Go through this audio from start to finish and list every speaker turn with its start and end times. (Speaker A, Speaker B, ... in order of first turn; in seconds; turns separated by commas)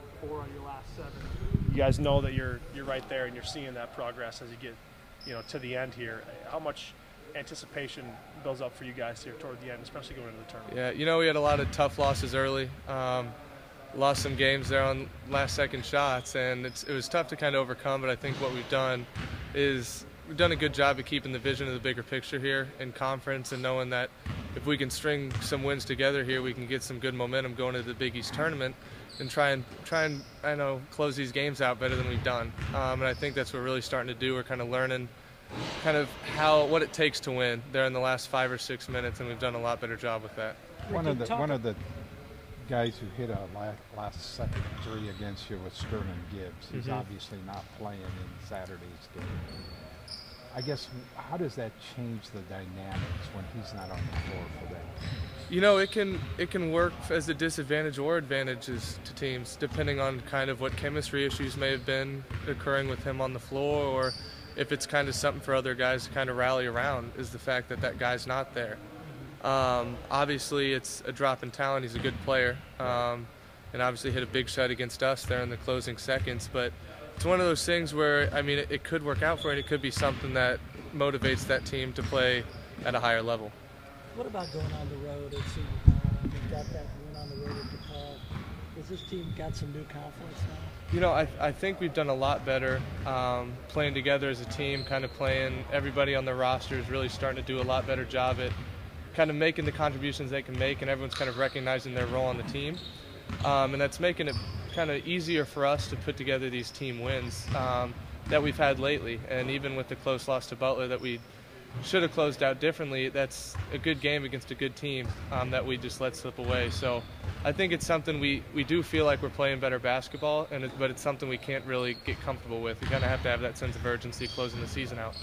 Speaker A: 0.2-10.8, Speaker B: 10.7-13.4, Speaker B: 13.9-35.1, Speaker B: 35.8-40.6, Speaker C: 40.8-41.6, Speaker D: 40.9-41.8, Speaker D: 42.6-49.6, Speaker B: 46.7-47.0, Speaker D: 50.5-55.0, Speaker B: 55.5-68.8, Speaker C: 69.0-69.3, Speaker B: 69.4-83.6, Speaker C: 84.1-90.8, Speaker B: 90.9-98.6, Speaker B: 99.1-102.8, Speaker B: 103.4-111.2, Speaker B: 111.8-125.2